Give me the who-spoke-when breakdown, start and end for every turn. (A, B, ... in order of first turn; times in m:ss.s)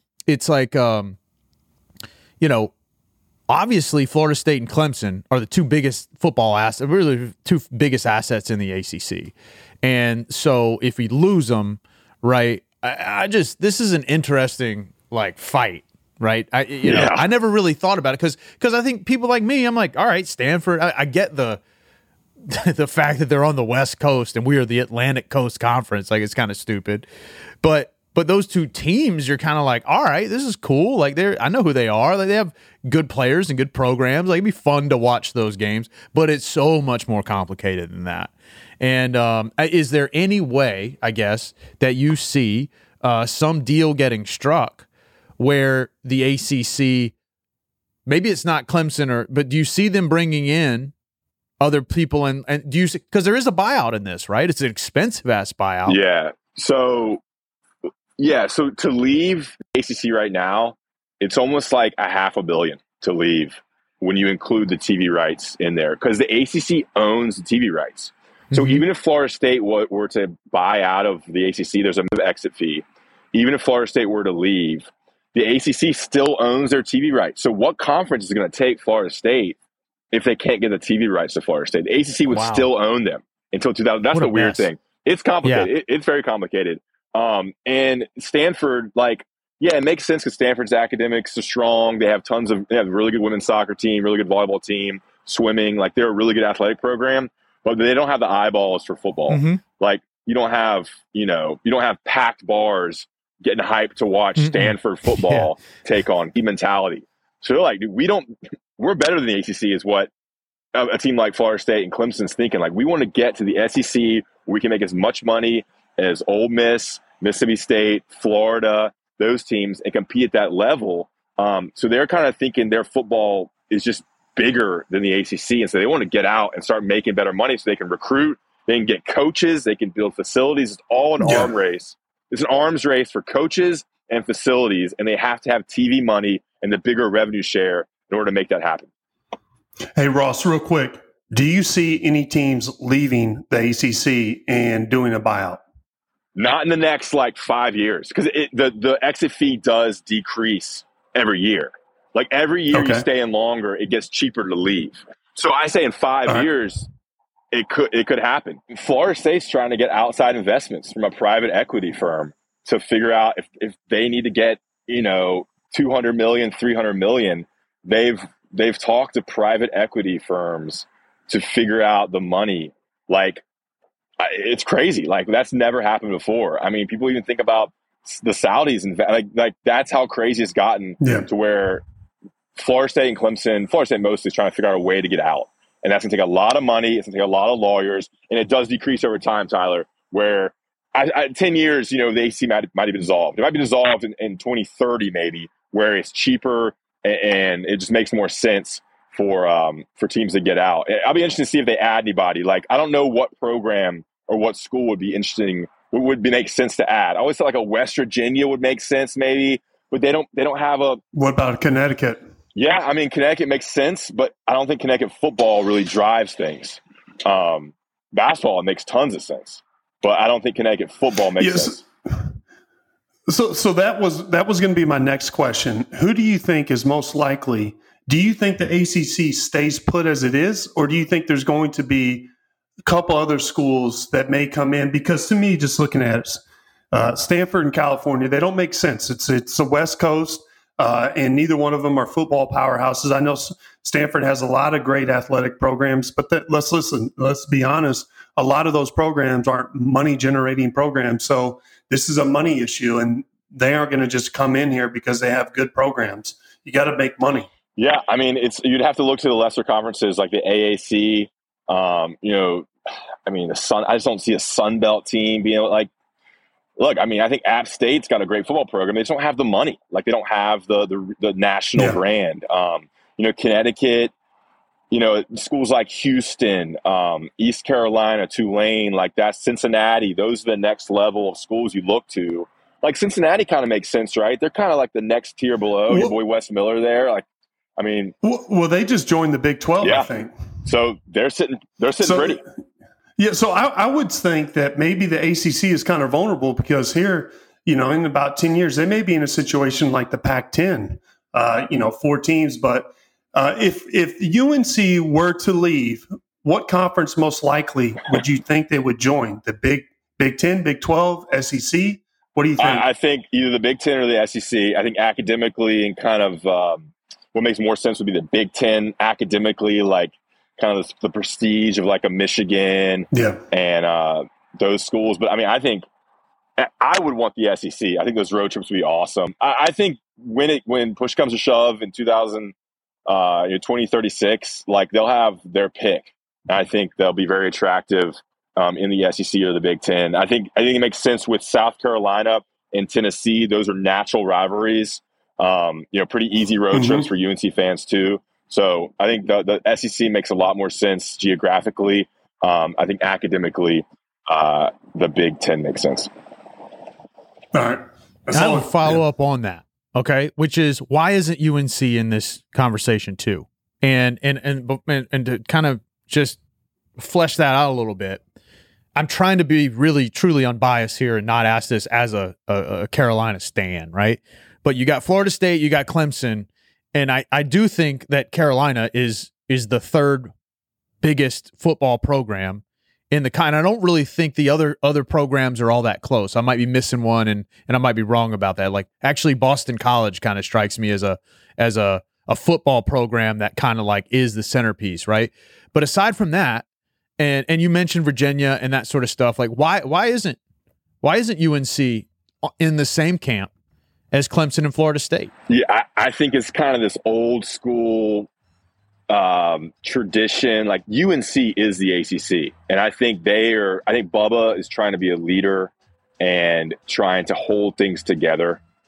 0:00.3-0:01.2 A
0:02.4-0:02.7 A
0:03.5-0:21.6 A
0:16.8-0:17.2 B
0:22.5-0:27.1 A
0:27.6-0:44.9 A
0:45.4-0:47.1 A
0:48.1-0:50.9 A
0:51.6-0:56.0 A
0:55.9-0:57.2 B
0:58.2-1:19.6 B
1:08.5-1:08.8 A
1:20.1-1:50.1 B
1:22.3-1:22.7 A
1:24.1-1:24.7 A
1:25.4-1:25.7 A
1:39.3-1:39.6 A
1:44.4-1:45.5 A
1:50.8-2:18.9 B
2:11.2-2:11.5 C
2:20.0-2:25.6 C
2:26.4-2:36.9 B
2:32.7-2:33.1 C
2:37.5-2:53.4 B
2:54.2-3:01.8 B
3:01.0-3:01.3 C
3:02.6-3:31.0 B
3:31.1-3:32.2 C
3:32.6-3:41.8 B
3:41.4-3:42.4 C
3:43.3-3:52.3 C
3:52.8-4:17.5 C
4:17.8-4:22.7 B
4:23.3-4:25.9 B
4:26.8-4:34.1 B
4:31.8-4:32.0 C
4:34.9-4:47.2 B
4:45.9-4:46.2 C
4:47.8-4:48.1 B
4:48.2-4:50.3 C
4:49.8-4:50.1 B
4:50.6-4:52.4 B
4:52.0-4:52.4 C
4:53.2-5:12.9 C
5:12.6-5:25.9 B
5:23.1-5:23.4 C
5:26.6-5:32.5 B
5:33.1-5:56.1 B
5:46.7-5:47.1 C
5:57.5-5:59.0 C
5:58.3-6:06.4 A
6:07.0-6:08.2 A
6:09.0-6:20.3 A
6:21.0-6:36.6 A
6:37.2-6:40.4 A
6:41.0-6:42.1 A
6:42.6-6:43.5 A
6:44.1-6:45.3 A
6:45.5-6:48.3 B
6:49.1-6:58.6 B